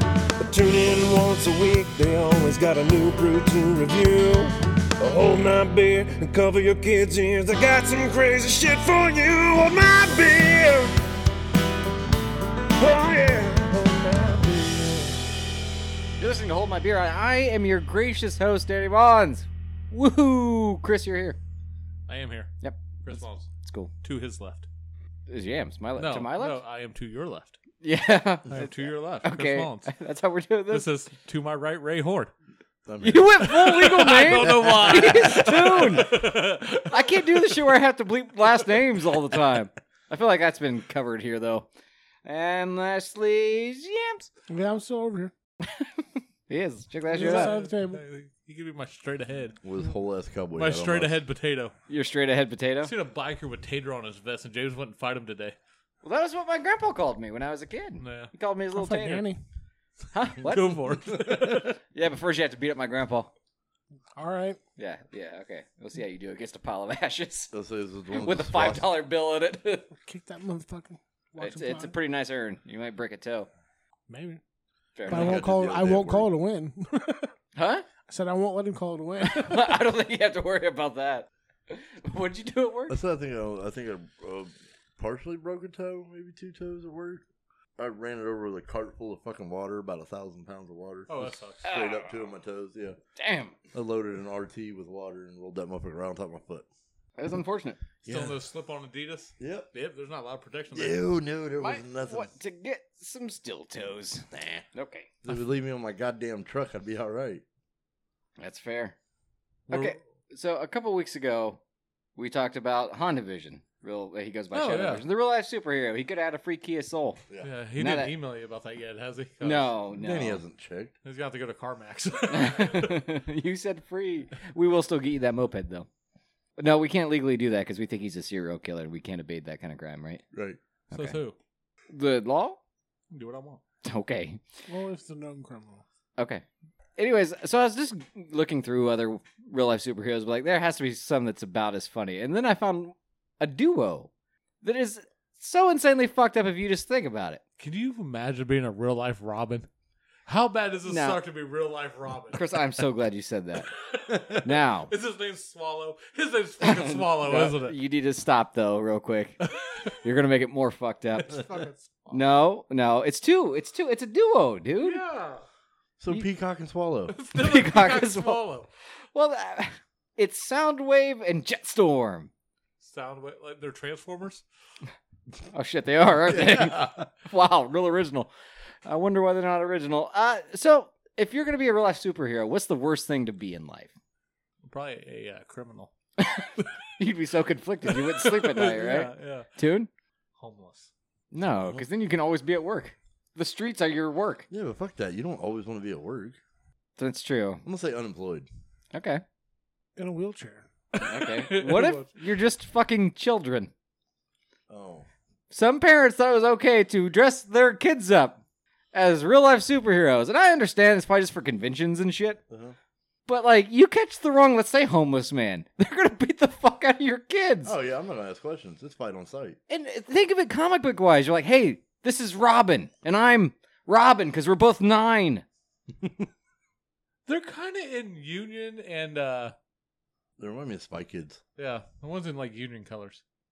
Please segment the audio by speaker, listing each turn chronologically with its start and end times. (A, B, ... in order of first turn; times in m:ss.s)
0:00.4-0:10.9 A
0:12.8-0:15.2 A
0:16.2-0:21.4 B
0:22.1-0:23.5 C
0:22.6-0:23.9 B
0:24.0-0:24.7 C
0:25.3-0:26.6 B
0:26.0-0:27.6 C
0:27.8-0:30.9 B
0:28.5-0:28.8 D
0:28.5-0:29.9 C
0:30.7-0:32.3 C
0:32.8-0:35.9 D
0:33.0-0:41.7 B
0:33.7-0:37.4 C
0:42.2-0:44.3 B
0:44.5-0:45.3 E
0:45.6-0:47.6 B
0:47.1-0:48.0 E
0:47.1-0:49.6 C
0:49.6-0:51.2 D
0:50.6-0:51.7 C
0:51.9-0:52.9 B
0:52.8-0:55.6 C
0:56.0-0:59.3 B
0:58.0-0:58.3 C
0:58.7-0:59.4 E
1:00.1-1:00.8 B
1:00.4-1:01.7 C
1:01.9-1:03.3 B
1:04.2-1:04.6 E
1:04.8-1:07.5 B
1:07.5-1:08.9 D
1:08.1-1:09.9 B
1:10.0-1:11.9 E
1:11.4-1:13.5 B
1:14.1-1:14.4 E
1:15.0-1:15.4 B
1:15.1-1:16.3 D
1:15.1-1:17.3 E
1:17.6-1:17.8 B
1:18.1-1:19.8 E
1:19.2-1:23.0 B
1:22.9-1:27.2 D
1:27.8-1:33.0 D
1:31.1-1:31.6 C
1:31.6-1:32.1 B
1:33.2-1:33.5 B
1:33.7-1:36.7 D
1:37.2-1:37.8 B
1:38.0-1:41.1 C
1:38.0-1:38.4 D
1:39.4-1:39.7 D
1:40.7-1:42.3 D
1:41.6-1:45.1 B
1:44.3-1:44.6 D
1:45.2-1:47.4 D
1:48.4-1:48.9 B
1:49.7-1:49.9 C
1:49.7-1:51.6 B
1:52.2-1:57.2 B
1:54.5-1:55.0 C
1:57.4-1:59.8 C
1:57.8-1:58.1 B
1:59.4-2:00.4 B
2:00.0-2:00.9 D
2:01.0-2:03.0 C
2:02.3-2:05.9 B
2:06.6-2:10.2 B
2:10.3-2:10.6 D
2:10.9-2:11.2 B
2:10.9-2:11.4 C
2:11.9-2:12.6 B
2:13.1-2:13.6 C
2:13.8-2:14.4 B
2:14.7-2:15.8 E
2:16.2-2:16.4 B
2:17.0-2:24.1 B
2:24.6-2:27.4 B
2:27.6-2:29.7 C
2:30.3-2:32.5 C
2:30.8-2:31.2 B
2:32.3-2:33.7 B
2:33.8-2:37.8 C
2:34.4-2:34.9 B
2:36.6-2:39.4 B
2:40.0-2:41.4 B
2:41.3-2:42.2 C
2:42.1-2:45.0 B
2:44.8-2:45.4 C
2:46.0-2:47.1 D
2:47.1-2:48.7 C
2:47.3-2:48.4 B
2:49.1-2:52.3 B
2:52.8-2:54.4 C
2:55.4-2:58.3 B
2:56.3-2:57.1 D
2:58.8-3:03.9 B
3:04.6-3:05.9 C
3:06.2-3:09.9 B
3:07.9-3:09.5 C
3:10.4-3:10.9 C
3:11.3-3:14.5 B
3:11.6-3:11.8 D
3:14.5-3:16.4 D
3:17.0-3:17.6 B
3:17.6-3:18.5 D
3:18.9-3:19.2 B
3:20.0-3:20.6 E
3:20.9-3:22.1 C
3:21.0-3:23.7 B
3:24.7-3:25.1 D
3:25.5-3:28.4 B
3:28.9-3:32.4 B
3:32.5-3:32.7 D
3:33.2-3:37.7 B
3:37.6-3:39.6 D
3:39.7-3:45.4 B
3:47.2-3:49.5 C
3:50.4-3:51.4 D
3:51.6-3:53.2 C